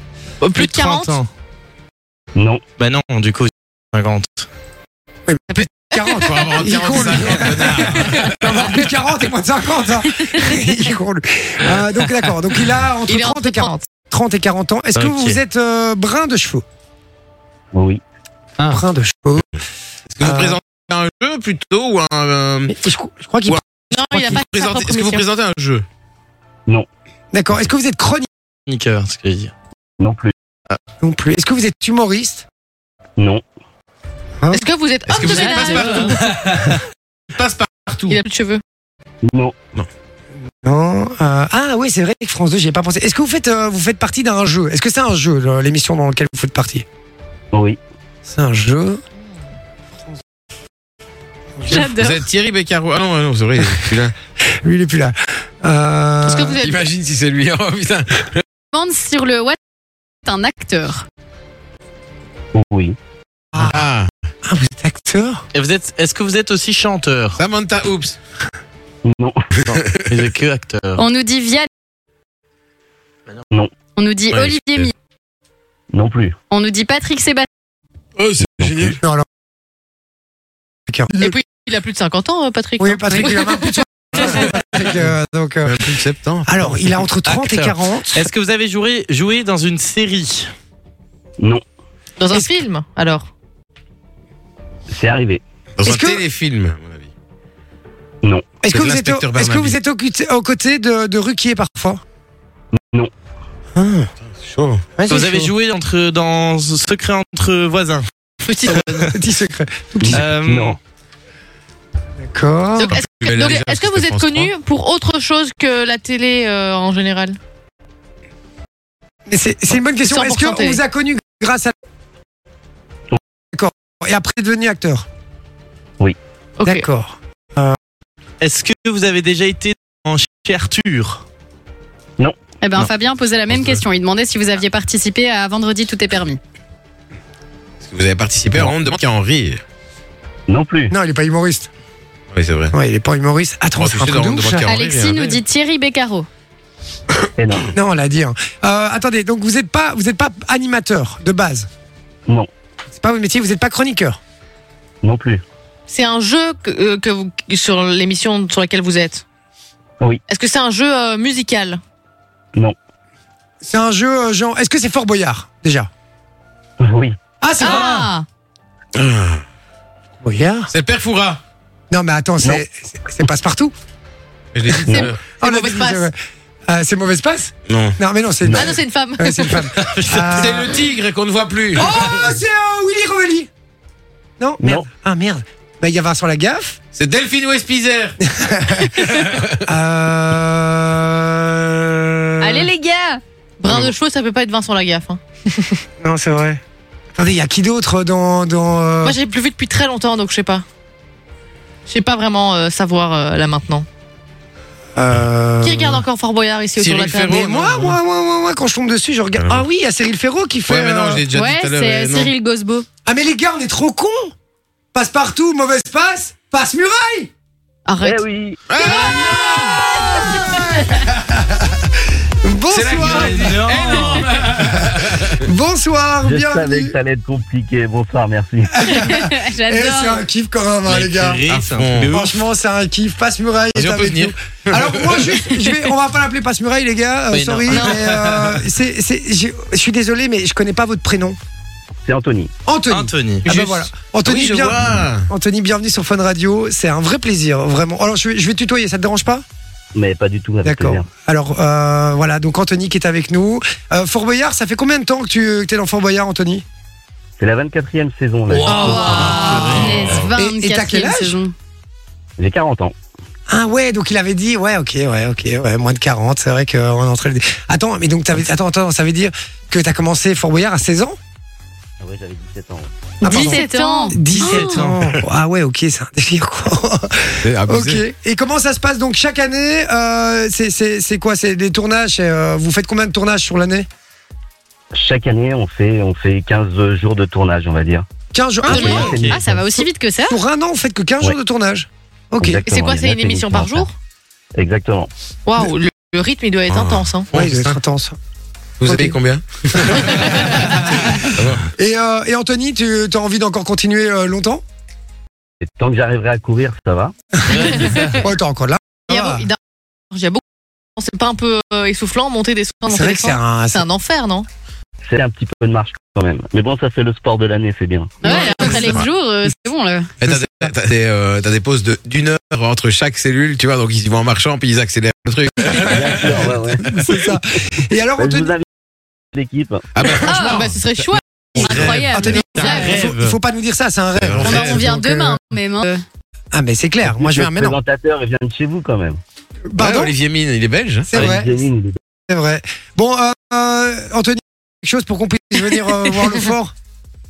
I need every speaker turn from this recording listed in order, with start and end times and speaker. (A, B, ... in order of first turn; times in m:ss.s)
0:00.4-0:01.2 A
0:00.5-0:01.3 B
0:02.3-0:02.6 C
0:02.8-0:04.5 B
0:05.3-0:16.6 D
0:06.1-0:08.6 E
0:13.1-0:13.8 A
0:15.0-0:15.4 B
0:17.7-0:18.0 C
0:18.7-0:19.5 D
0:20.1-0:22.8 E
0:20.2-0:20.6 D
0:22.7-0:24.4 D
0:23.9-0:25.2 A
0:24.1-0:25.8 E
0:27.3-0:28.3 D
0:28.7-0:29.5 B
0:30.0-0:30.3 C
0:31.0-0:32.4 D
0:33.2-0:33.4 C
0:34.5-0:36.2 A
0:35.1-0:36.7 E
0:35.7-0:36.8 B
0:37.3-0:38.2 E
0:38.1-0:38.6 A
0:39.2-0:39.5 C
0:40.6-0:46.8 D
0:47.5-0:47.8 C
0:48.2-0:49.0 D
0:51.7-0:54.1 E
0:51.7-0:52.2 F
0:54.4-0:56.7 D
0:56.2-0:56.8 A
0:56.6-0:58.4 E
0:58.7-0:59.6 F
1:00.2-1:01.0 F
1:02.5-1:03.0 C
1:03.5-1:03.8 D
1:03.5-1:04.1 E
1:04.4-1:05.4 D
1:05.5-1:07.4 B
1:07.4-1:08.2 E
1:09.0-1:09.5 C
1:09.7-1:11.0 B
1:09.7-1:10.1 E
1:11.0-1:11.7 F
1:14.0-1:14.9 F
1:14.3-1:14.9 E
1:15.9-1:16.4 C
1:16.5-1:17.5 F
1:18.2-1:19.0 E
1:18.9-1:19.2 D
1:20.9-1:21.4 D
1:21.1-1:23.8 A
1:22.8-1:25.9 D
1:25.6-1:26.8 E
1:26.4-1:28.3 D
1:27.2-1:30.5 B
1:32.2-1:33.3 A
1:34.9-1:35.4 C
1:35.8-1:37.1 E
1:35.8-1:36.2 D
1:38.2-1:38.6 C
1:38.6-1:42.0 D
1:38.7-1:39.8 E
1:42.7-1:43.1 C
1:43.8-1:44.1 D
1:44.1-1:44.8 E
1:45.0-1:45.5 D
1:45.1-1:48.0 B
1:48.4-1:49.1 A
1:48.6-1:49.1 B
1:49.0-1:50.2 D
1:50.0-1:50.8 C
1:50.1-1:50.8 B
1:52.2-1:53.0 D
1:52.8-1:57.4 A
1:52.9-1:54.5 E
1:59.3-2:01.7 D
2:00.0-2:00.8 A
2:03.5-2:05.0 D
2:06.6-2:06.8 A
2:06.6-2:07.8 D
2:08.4-2:11.2 B
2:12.6-2:16.4 F
2:17.8-2:19.6 E
2:20.5-2:20.9 C
2:20.9-2:21.7 D
2:22.3-2:22.7 E
2:22.7-2:24.6 D
2:23.8-2:25.4 E
2:24.7-2:26.3 F
2:27.4-2:27.7 C
2:27.7-2:31.7 D
2:32.9-2:34.2 D
2:35.0-2:35.4 C
2:35.9-2:39.2 A
2:40.3-2:41.8 A
2:43.6-2:45.9 D
2:46.8-2:47.2 C
2:47.4-2:48.1 D
2:47.6-2:48.2 A
2:48.9-2:49.4 E
2:50.2-2:50.7 D
2:50.7-2:51.4 E
2:51.9-2:53.7 D
2:54.5-2:55.2 E
2:54.7-2:56.1 D
2:54.9-2:56.1 A
2:56.7-3:00.8 D
2:57.7-2:58.0 E
2:58.4-2:58.7 C
2:58.5-2:59.7 A
2:59.8-3:00.4 B
3:00.1-3:02.1 E
3:01.8-3:03.5 D
3:04.4-3:06.8 D
3:04.6-3:04.9 C
3:06.9-3:08.2 E
3:08.2-3:08.9 D
3:08.9-3:09.6 E
3:09.6-3:12.7 D
3:12.4-3:13.2 F
3:13.6-3:15.8 A
3:13.6-3:13.9 E
3:16.0-3:16.6 D
3:17.1-3:19.2 D
3:19.0-3:20.6 A
3:21.9-3:23.8 A
3:25.0-3:26.0 D
3:25.6-3:27.5 A
3:26.8-3:28.0 E
3:27.2-3:31.2 D
3:29.4-3:29.6 E
3:30.7-3:32.3 E
3:31.3-3:32.8 F
3:33.0-3:34.3 D
3:34.9-3:37.3 D
3:37.9-3:38.2 A
3:38.0-3:38.6 C
3:38.7-3:39.8 E
3:38.8-3:41.9 D
3:42.4-3:44.0 D
3:42.7-3:45.3 E
3:42.8-3:44.9 B
3:45.4-3:46.9 D
3:46.2-3:48.8 C
3:48.7-3:51.4 D
3:48.8-3:50.2 F
3:50.9-3:52.3 B
3:51.5-3:52.2 E
3:52.1-4:01.4 D
3:53.7-3:55.4 E
3:57.3-3:58.6 B
3:57.7-3:58.0 A
4:02.0-4:02.5 C
4:02.6-4:09.4 D
4:02.9-4:03.5 B
4:03.5-4:05.3 E
4:09.9-4:11.1 C
4:10.6-4:16.6 D
4:17.4-4:19.3 C
4:18.5-4:20.2 B
4:18.7-4:21.5 F
4:20.3-4:21.4 D
4:22.4-4:22.9 C
4:23.5-4:31.2 D
4:32.0-4:32.9 C
4:33.2-4:43.9 D
4:33.2-4:34.8 F
4:33.2-4:34.2 A
4:34.4-4:34.9 B
4:37.4-4:38.0 E
4:44.9-4:48.0 C
4:48.3-4:49.1 D
4:48.6-4:50.4 F
4:48.6-4:49.6 C
4:48.7-4:49.1 A
4:49.8-4:52.6 D
4:52.4-4:53.9 C
4:52.7-4:53.9 A
4:54.6-4:55.1 C
4:55.4-4:57.3 A
4:56.7-4:57.8 E
4:57.3-4:58.2 D
4:58.8-5:01.6 E
4:58.8-4:59.2 D
4:59.8-5:01.1 D
5:01.7-5:04.6 D
5:05.6-5:07.1 C
5:07.5-5:08.2 B
5:07.7-5:08.0 A
5:08.1-5:09.5 D
5:09.1-5:09.6 A
5:10.1-5:10.4 A
5:11.0-5:14.5 A
5:12.9-5:13.8 D
5:15.0-5:18.2 C
5:18.2-5:20.1 F
5:18.2-5:19.0 D
5:18.2-5:18.9 A
5:18.8-5:19.1 E
5:20.2-5:26.5 E
5:20.2-5:20.7 D
5:25.8-5:26.9 C
5:26.9-5:28.5 D
5:28.2-5:28.7 C
5:29.3-5:29.9 C
5:29.9-5:32.1 E
5:30.2-5:30.6 F
5:30.2-5:31.2 A
5:31.6-5:33.0 F
5:31.6-5:33.4 B
5:32.1-5:35.4 D
5:34.2-5:34.8 E
5:34.4-5:36.0 F
5:36.5-5:37.8 D
5:37.0-5:39.2 C
5:39.7-5:40.1 D
5:39.8-5:41.3 E
5:41.1-5:41.6 D
5:41.1-5:42.0 C
5:42.3-5:46.7 D